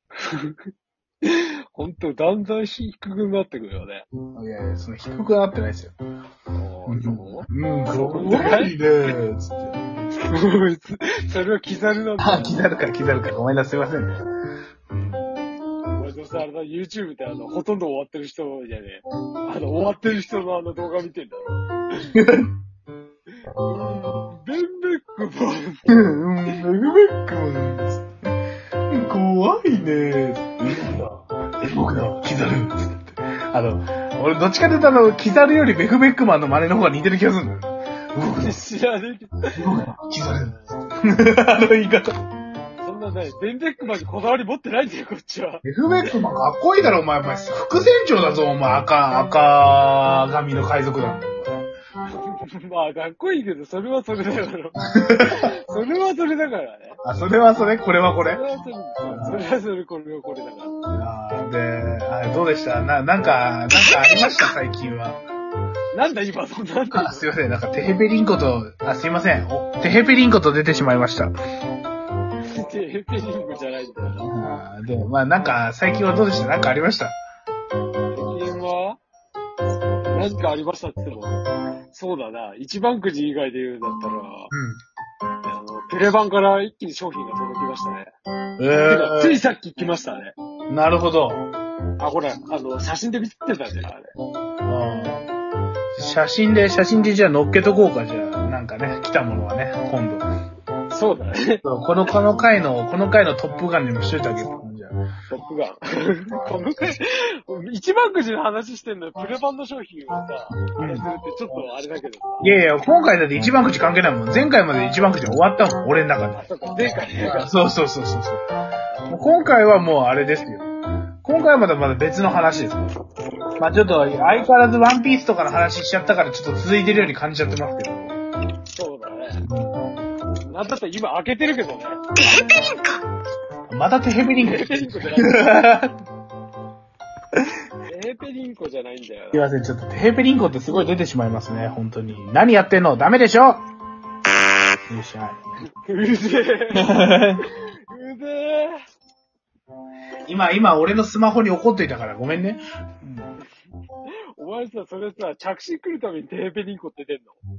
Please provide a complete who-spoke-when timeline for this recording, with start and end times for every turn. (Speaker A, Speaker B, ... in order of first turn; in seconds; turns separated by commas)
Speaker A: 0.2-0.6, Speaker A: 1.2-4.0, Speaker B: 4.3-6.0, Speaker A: 6.5-9.2, Speaker B: 6.9-9.8, Speaker A: 10.3-12.8, Speaker B: 12.2-14.1, Speaker A: 16.0-21.7, Speaker B: 22.1-22.5, Speaker A: 23.6-26.6, Speaker B: 25.9-28.1, Speaker B: 28.9-38.6, Speaker A: 38.3-39.6, Speaker B: 39.5-42.1, Speaker A: 42.8-46.1, Speaker B: 45.6-51.7, Speaker A: 52.1-57.0, Speaker B: 55.0-55.4, Speaker B: 57.0-58.4, Speaker A: 58.2-60.8, Speaker B: 59.1-59.4, Speaker B: 60.9-65.2, Speaker A: 63.8-64.5, Speaker A: 65.9-67.3, Speaker B: 66.9-71.3, Speaker A: 72.5-74.3, Speaker B: 74.2-77.1, Speaker A: 78.1-79.0, Speaker A: 80.1-81.4, Speaker A: 81.9-84.5, Speaker B: 84.5-84.8, Speaker A: 85.4-88.1, Speaker B: 88.6-89.4, Speaker A: 88.8-90.3, Speaker B: 90.7-91.5, Speaker A: 92.0-94.1, Speaker B: 94.7-95.2, Speaker B: 96.0-100.3, Speaker A: 100.9-101.6, Speaker B: 101.6-105.0, Speaker A: 105.3-112.5, Speaker B: 110.7-111.1, Speaker B: 112.4-118.4, Speaker A: 116.3-117.5, Speaker A: 118.9-119.3, Speaker B: 119.1-120.7, Speaker B: 121.2-122.9, Speaker B: 123.6-128.2, Speaker A: 123.8-124.5, Speaker A: 128.7-129.4, Speaker B: 129.4-129.9, Speaker A: 130.5-132.7, Speaker B: 133.7-135.9, Speaker A: 134.3-135.6, Speaker A: 137.8-139.5, Speaker B: 139.3-143.7, Speaker B: 144.9-145.4, Speaker A: 145.8-148.8, Speaker B: 146.8-147.4, Speaker B: 150.3-153.3, Speaker A: 154.4-157.4